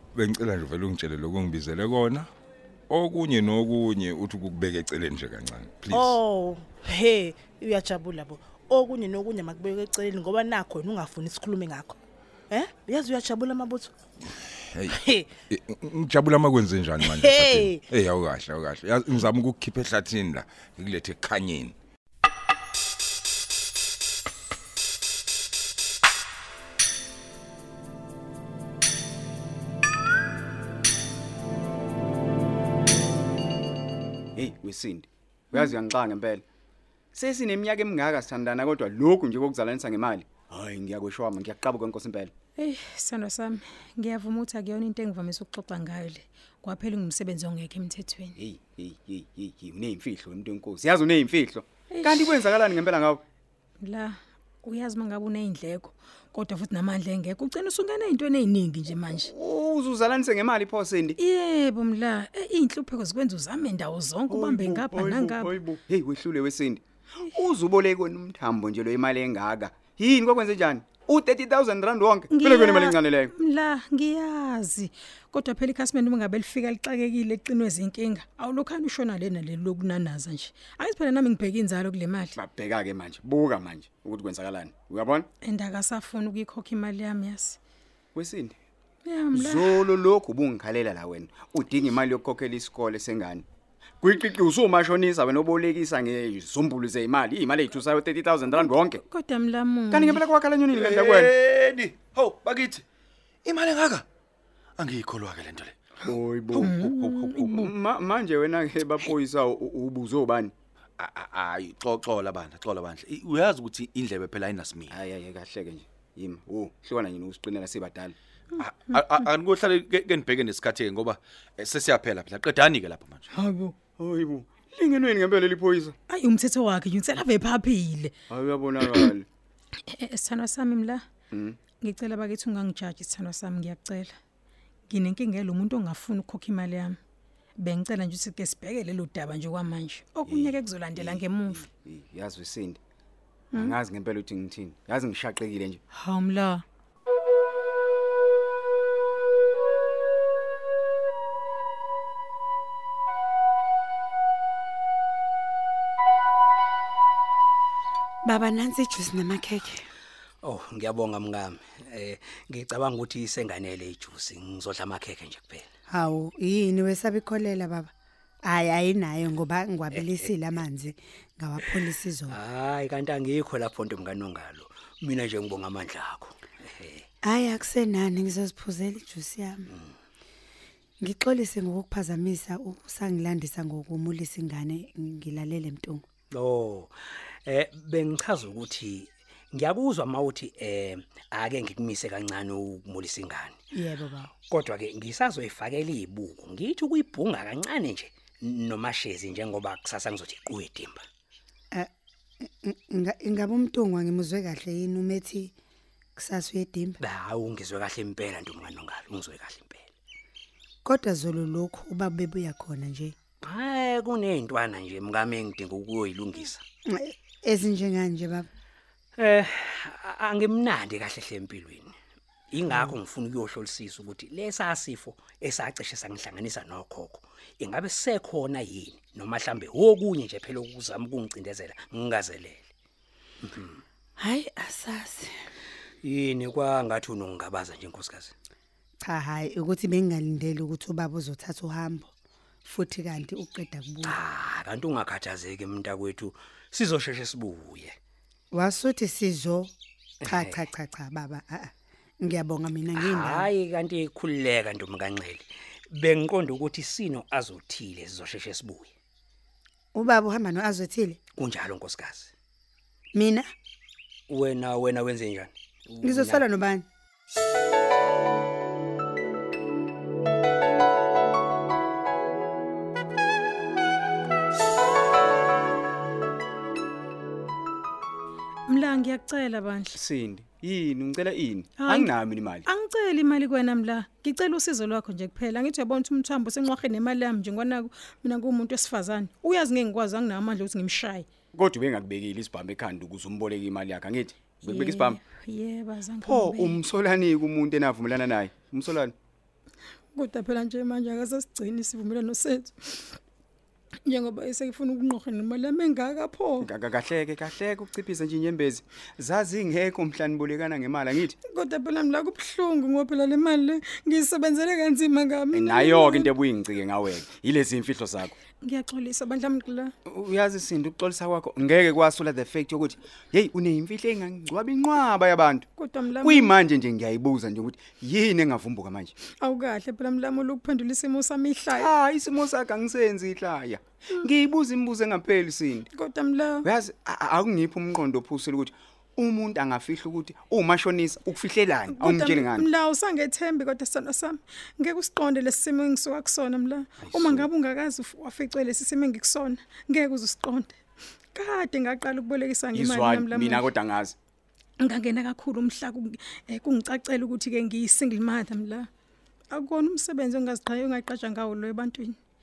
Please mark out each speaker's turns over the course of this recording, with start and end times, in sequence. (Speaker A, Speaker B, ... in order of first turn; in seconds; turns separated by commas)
Speaker A: 0.1-2.3, Speaker A: 2.9-6.2, Speaker B: 5.9-12.0, Speaker B: 12.5-13.9, Speaker B: 14.9-15.3, Speaker A: 15.5-21.8, Speaker B: 17.0-17.8, Speaker C: 34.4-36.4, Speaker C: 37.1-42.3, Speaker D: 42.6-48.4, Speaker C: 48.4-53.2, Speaker D: 51.9-52.4, Speaker D: 53.8-59.3, Speaker C: 59.1-61.2, Speaker D: 61.2-65.6, Speaker C: 64.3-73.3, Speaker D: 72.3-82.3, Speaker C: 82.4-85.3, Speaker D: 85.4-87.6, Speaker C: 88.1-88.6, Speaker D: 89.0-89.9, Speaker C: 89.3-93.5, Speaker C: 94.0-99.0, Speaker D: 98.7-100.2, Speaker C: 99.9-101.3, Speaker E: 100.7-102.8, Speaker E: 103.5-104.1, Speaker E: 104.8-105.8, Speaker C: 106.0-110.5, Speaker E: 106.6-107.2, Speaker D: 106.6-107.7, Speaker E: 111.0-115.0, Speaker C: 114.9-118.2, Speaker D: 118.6-119.2, Speaker E: 118.6-123.3, Speaker D: 123.3-123.8, Speaker C: 124.0-126.0, Speaker D: 126.1-128.1, Speaker C: 128.3-129.3, Speaker D: 129.9-131.0, Speaker C: 131.3-131.6, Speaker D: 131.7-134.1, Speaker D: 134.9-137.0, Speaker D: 137.6-141.6, Speaker C: 140.3-142.8, Speaker D: 143.5-143.8, Speaker C: 143.5-145.8, Speaker D: 145.9-146.6, Speaker F: 158.3-159.8, Speaker G: 160.4-165.7, Speaker F: 165.9-167.9, Speaker F: 168.5-172.4, Speaker G: 169.9-170.3, Speaker G: 172.3-177.1, Speaker F: 177.3-179.7, Speaker F: 181.0-186.0, Speaker G: 186.3-186.9, Speaker G: 187.4-193.6, Speaker F: 193.7-194.3, Speaker G: 194.5-201.0, Speaker F: 202.4-205.5, Speaker F: 206.2-207.0, Speaker G: 207.0-209.8, Speaker F: 210.8-213.2, Speaker G: 213.4-216.6, Speaker F: 216.9-218.5, Speaker G: 219.2-221.9, Speaker G: 222.5-232.7, Speaker G: 233.4-233.8, Speaker F: 234.2-235.3, Speaker G: 236.0-238.3, Speaker F: 239.0-242.1, Speaker F: 242.7-244.2, Speaker G: 244.0-247.9, Speaker F: 248.5-249.7, Speaker G: 250.2-250.6, Speaker F: 250.3-253.5, Speaker G: 252.9-258.9, Speaker F: 259.9-261.2, Speaker G: 261.4-262.3, Speaker F: 263.1-263.5, Speaker G: 264.3-266.4, Speaker F: 266.0-266.9, Speaker D: 278.7-280.0, Speaker C: 279.9-282.6, Speaker D: 281.8-282.1, Speaker D: 282.7-291.3, Speaker C: 291.6-295.2, Speaker D: 294.6-296.8, Speaker C: 296.2-299.1, Speaker D: 300.2-303.2, Speaker D: 304.1-306.7, Speaker C: 306.6-311.4, Speaker D: 311.4-316.3, Speaker C: 315.5-318.4, Speaker D: 318.6-319.9, Speaker C: 320.1-325.7, Speaker D: 325.8-326.6, Speaker C: 326.2-329.1, Speaker D: 329.2-331.9, Speaker C: 331.7-335.9, Speaker D: 335.9-336.7, Speaker C: 336.6-342.7, Speaker D: 341.9-350.8, Speaker C: 347.0-347.5, Speaker D: 351.4-353.7, Speaker C: 352.7-354.2, Speaker D: 354.8-358.9, Speaker D: 359.5-362.2